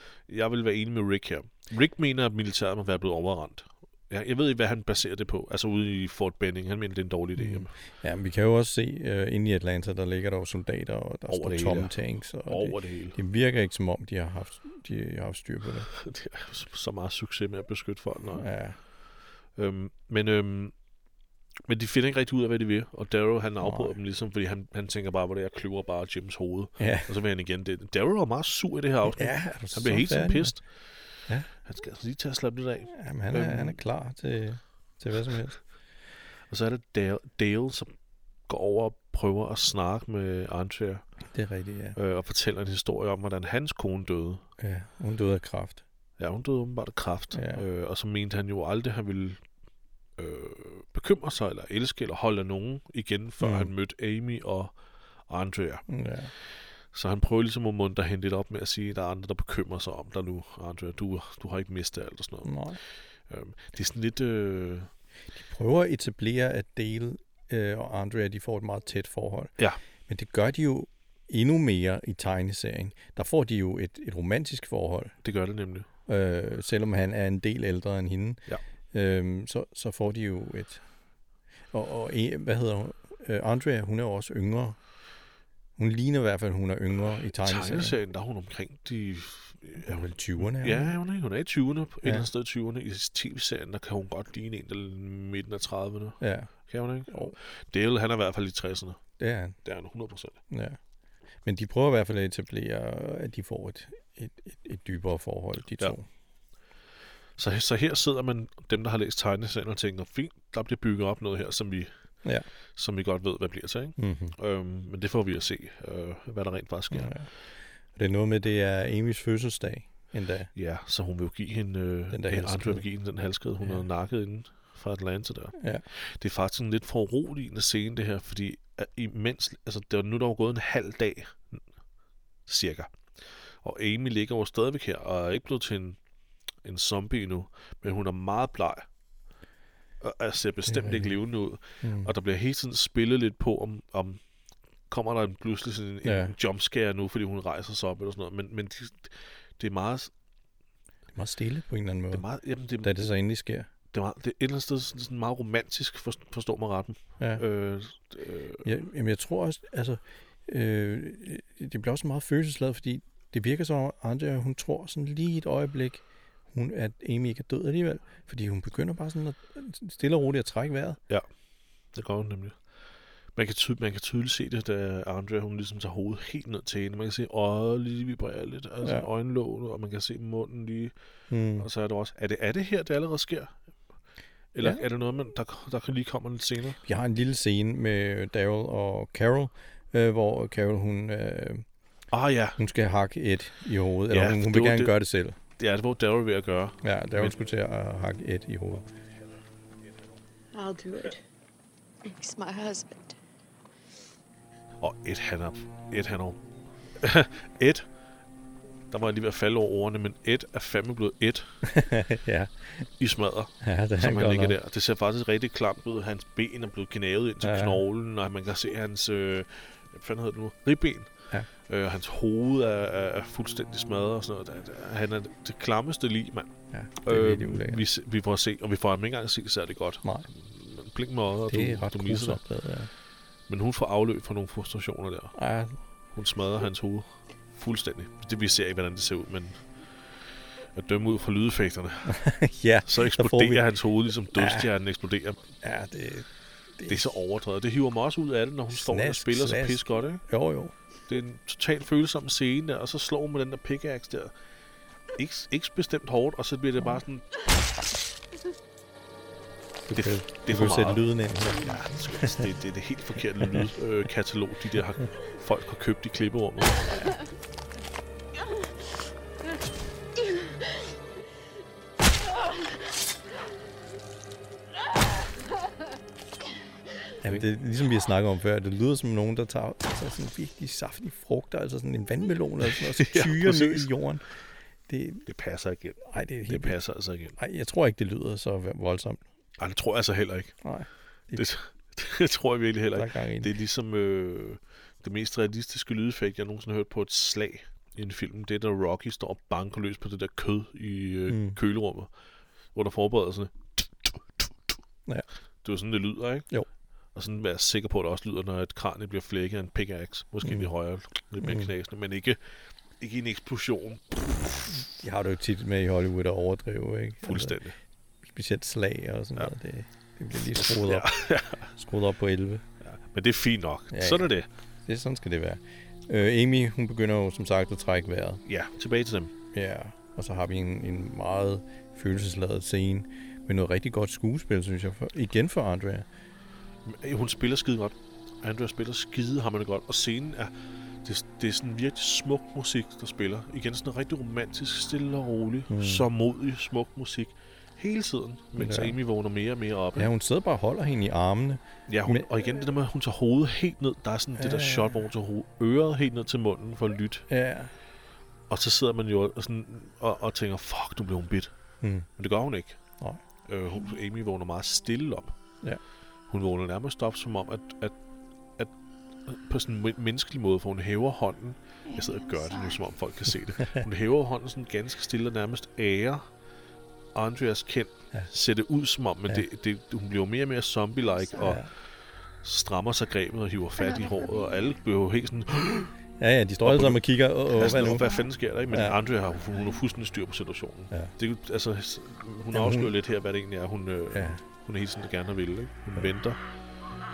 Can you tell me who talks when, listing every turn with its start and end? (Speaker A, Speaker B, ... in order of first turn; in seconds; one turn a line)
Speaker A: 0.3-7.7
Speaker B: 7.4-15.9
Speaker A: 11.3-13.2
Speaker A: 15.9-18.5
Speaker B: 18.3-18.8
Speaker A: 19.6-20.7
Speaker A: 21.7-30.6
Speaker B: 23.6-24.0
Speaker B: 26.8-27.1
Speaker B: 29.1-30.5
Speaker A: 31.6-33.8
Speaker B: 32.9-35.6
Speaker A: 36.5-37.9
Speaker A: 38.5-41.0
Speaker B: 41.3-42.0
Speaker A: 42.0-44.4
Speaker B: 44.6-45.8
Speaker A: 46.2-49.4
Speaker B: 47.3-47.6
Speaker A: 50.2-54.7
Speaker B: 53.4-53.7
Speaker A: 55.3-55.8
Speaker B: 55.9-56.3
Speaker A: 56.9-62.6
Speaker B: 62.4-62.8
Speaker A: 63.3-64.9
Speaker B: 65.4-69.6
Speaker B: 70.1-75.2
Speaker A: 75.2-75.9
Speaker B: 76.1-80.8
Speaker B: 81.7-84.8
Speaker B: 85.8-88.0
Speaker A: 87.4-99.0
Speaker B: 89.8-90.9
Speaker B: 96.2-96.5
Speaker B: 97.1-97.4
Speaker B: 99.2-99.6
Speaker A: 99.6-100.4
Speaker B: 100.5-100.8
Speaker B: 101.5-106.1
Speaker A: 107.4-111.9
Speaker A: 112.8-117.1
Speaker B: 114.0-114.4
Speaker B: 116.9-117.3
Speaker B: 118.0-120.5
Speaker A: 120.5-131.6
Speaker B: 122.1-122.8
Speaker B: 125.6-125.8
Speaker A: 132.5-133.1
Speaker A: 133.6-136.0
Speaker A: 136.6-138.9
Speaker A: 140.0-144.2
Speaker B: 140.7-141.2
Speaker B: 141.8-142.1
Speaker A: 144.9-150.1
Speaker B: 146.0-146.3
Speaker B: 151.2-152.2
Speaker A: 152.1-153.0
Speaker B: 152.8-153.7
Speaker A: 153.9-158.7
Speaker B: 158.6-171.0
Speaker A: 171.9-172.6
Speaker A: 173.3-180.9
Speaker B: 181.3-181.7
Speaker A: 181.6-183.6
Speaker A: 184.5-186.8
Speaker B: 186.8-191.7
Speaker A: 192.1-192.6
Speaker B: 192.6-195.4
Speaker A: 194.1-194.9
Speaker A: 195.6-197.3
Speaker B: 196.8-198.8
Speaker C: 200.6-201.2
Speaker C: 202.0-203.2
Speaker A: 204.8-206.4
Speaker A: 207.0-207.9
Speaker A: 208.9-211.6
Speaker B: 211.6-212.9
Speaker A: 213.0-221.1
Speaker B: 213.6-214.6
Speaker B: 217.4-217.8
Speaker A: 221.6-226.5
Speaker B: 226.7-227.8
Speaker A: 227.0-232.4
Speaker B: 231.5-232.9
Speaker A: 233.5-235.4
Speaker B: 235.3-235.8
Speaker A: 236.1-239.7
Speaker A: 240.7-242.2
Speaker B: 242.1-243.7
Speaker A: 242.9-245.4
Speaker B: 244.3-244.7
Speaker B: 245.6-247.1
Speaker A: 246.9-250.2
Speaker B: 248.7-250.7
Speaker A: 251.1-254.3
Speaker A: 255.2-257.2
Speaker B: 259.9-262.5
Speaker A: 259.9-267.1
Speaker B: 263.4-263.7
Speaker B: 277.2-284.2
Speaker A: 282.7-283.9
Speaker B: 284.9-285.3
Speaker A: 285.3-287.4
Speaker B: 286.0-286.8
Speaker B: 287.4-289.2
Speaker A: 289.6-290.6
Speaker B: 290.6-291.5
Speaker A: 291.3-302.1
Speaker B: 292.9-293.5
Speaker B: 301.3-301.6
Speaker A: 302.7-304.5
Speaker A: 305.6-306.5
Speaker A: 307.1-312.4
Speaker B: 310.4-310.7
Speaker B: 311.4-311.7
Speaker A: 313.0-314.8
Speaker B: 314.7-317.6
Speaker A: 317.2-317.8
Speaker B: 318.2-321.1
Speaker A: 320.4-321.7
Speaker B: 321.8-322.6
Speaker A: 322.8-324.5
Speaker B: 323.9-324.3
Speaker B: 324.9-328.4
Speaker A: 328.5-329.3
Speaker B: 329.5-336.1
Speaker A: 336.9-340.5
Speaker A: 341.0-350.1
Speaker B: 345.7-346.1
Speaker B: 348.6-349.0
Speaker B: 349.9-352.3
Speaker A: 351.9-357.3
Speaker B: 354.4-355.0
Speaker B: 357.3-357.7
Speaker A: 358.5-361.5
Speaker A: 362.2-362.8
Speaker A: 363.5-365.4
Speaker A: 366.3-367.9
Speaker A: 369.3-376.2
Speaker C: 371.9-372.8
Speaker A: 377.1-381.7
Speaker B: 381.4-381.7
Speaker A: 382.4-385.9
Speaker C: 383.8-384.6
Speaker B: 386.2-388.2
Speaker A: 386.6-396.4
Speaker C: 387.8-388.3
Speaker B: 388.7-389.0
Speaker B: 392.5-392.9
Speaker B: 394.1-394.4